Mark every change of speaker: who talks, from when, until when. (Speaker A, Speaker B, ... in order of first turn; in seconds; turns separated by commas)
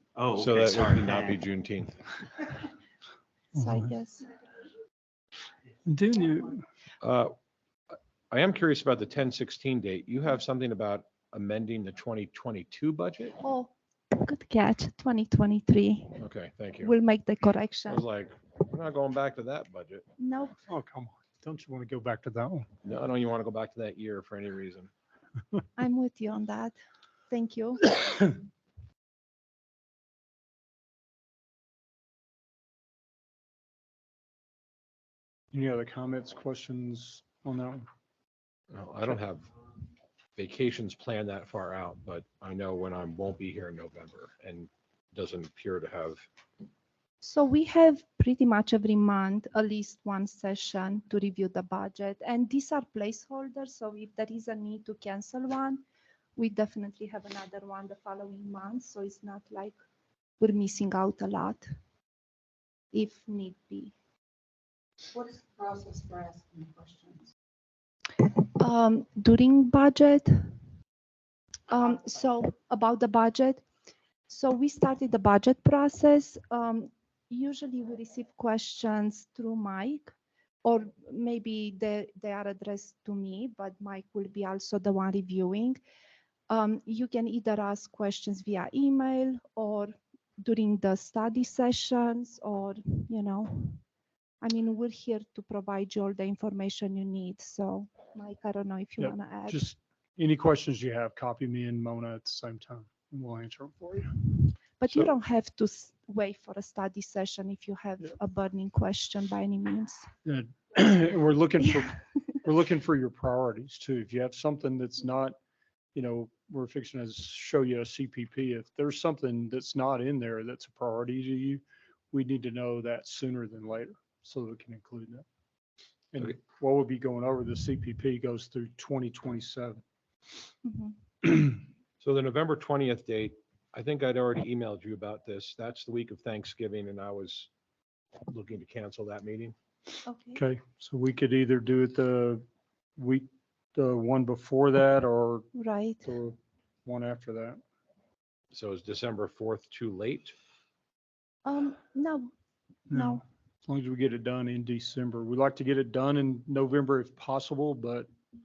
Speaker A: 0.1-1.4, Speaker B: 0.3-2.0, Speaker C: 3.5-4.3, Speaker D: 3.6-3.9, Speaker D: 5.9-6.7, Speaker B: 7.0-7.3, Speaker B: 8.3-13.4, Speaker C: 13.4-16.2, Speaker B: 16.2-16.9, Speaker C: 16.8-18.0, Speaker B: 17.9-20.1, Speaker C: 20.2-20.6, Speaker D: 20.7-22.7, Speaker B: 22.8-24.9, Speaker C: 25.8-26.8, Speaker C: 27.3-28.3, Speaker D: 35.5-37.9, Speaker B: 38.7-39.5, Speaker B: 40.4-46.3, Speaker C: 47.2-55.8, Speaker C: 56.4-59.8, Speaker C: 60.4-61.7, Speaker C: 62.9-63.9, Speaker A: 65.2-67.2, Speaker C: 68.2-70.5, Speaker C: 71.7-73.6, Speaker C: 74.3-85.8, Speaker C: 86.5-93.8, Speaker C: 94.4-99.6, Speaker D: 99.0-104.3, Speaker C: 104.8-110.1, Speaker D: 110.2-115.4, Speaker D: 115.9-125.2, Speaker D: 126.1-129.8, Speaker C: 130.6-130.9, Speaker D: 131.2-131.5, Speaker B: 132.0-137.5, Speaker B: 138.3-139.6, Speaker C: 140.1-140.4, Speaker D: 140.3-142.4, Speaker D: 143.0-145.5, Speaker C: 145.6-146.1, Speaker D: 146.1-147.6, Speaker B: 148.5-150.3, Speaker C: 151.4-152.3, Speaker C: 152.9-153.2, Speaker D: 152.9-158.1